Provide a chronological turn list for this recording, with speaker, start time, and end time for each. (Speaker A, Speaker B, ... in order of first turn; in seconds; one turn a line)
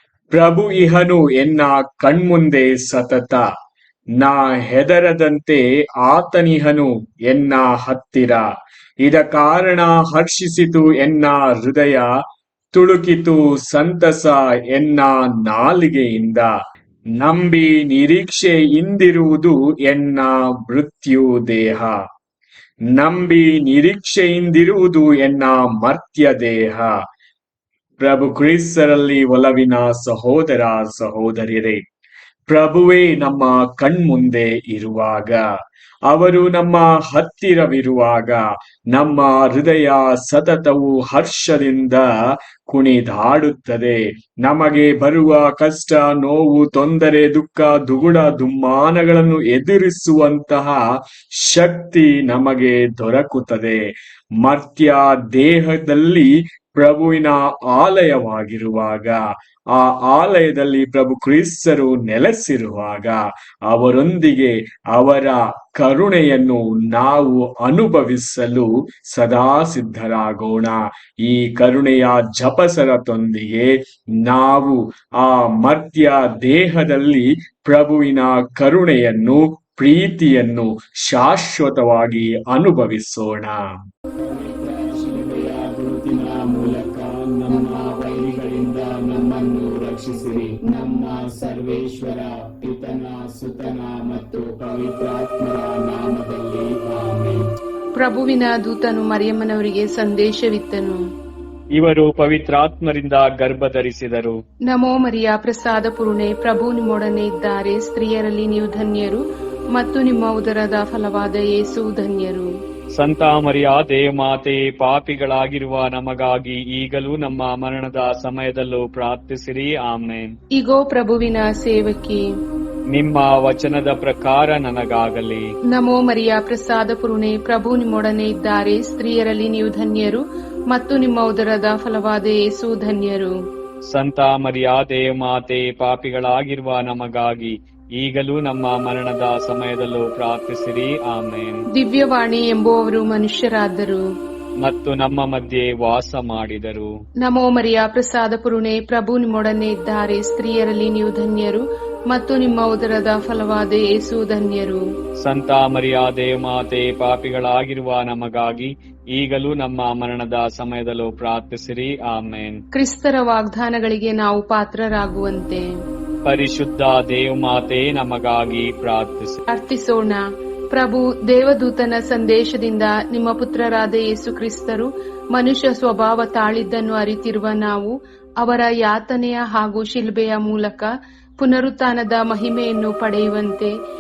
Speaker A: 0.3-3.5
Speaker A: 4.2-8.5
Speaker A: 9.0-12.1
Speaker A: 12.7-16.5
Speaker A: 17.2-22.0
Speaker A: 22.9-26.9
Speaker A: 28.0-31.8
Speaker A: 32.5-35.4
Speaker A: 36.1-42.1
Speaker A: 42.7-50.9
Speaker A: 51.4-53.8
Speaker A: 54.4-59.2
Speaker A: 59.7-83.7
Speaker B: 84.2-97.4
Speaker C: 98.0-101.0
Speaker D: 102.0-103.2
Speaker D: 103.9-104.4
Speaker C: 104.7-112.5
Speaker D: 113.0-120.4
Speaker C: 120.5-122.2
Speaker D: 122.9-125.5
Speaker C: 125.8-133.3
Speaker D: 133.9-141.7
Speaker C: 141.7-144.0
Speaker D: 144.6-146.9
Speaker C: 147.2-154.8
Speaker D: 155.2-162.6
Speaker C: 162.8-165.6
Speaker D: 166.3-169.4
Speaker C: 169.5-170.2
Speaker C: 170.7-183.7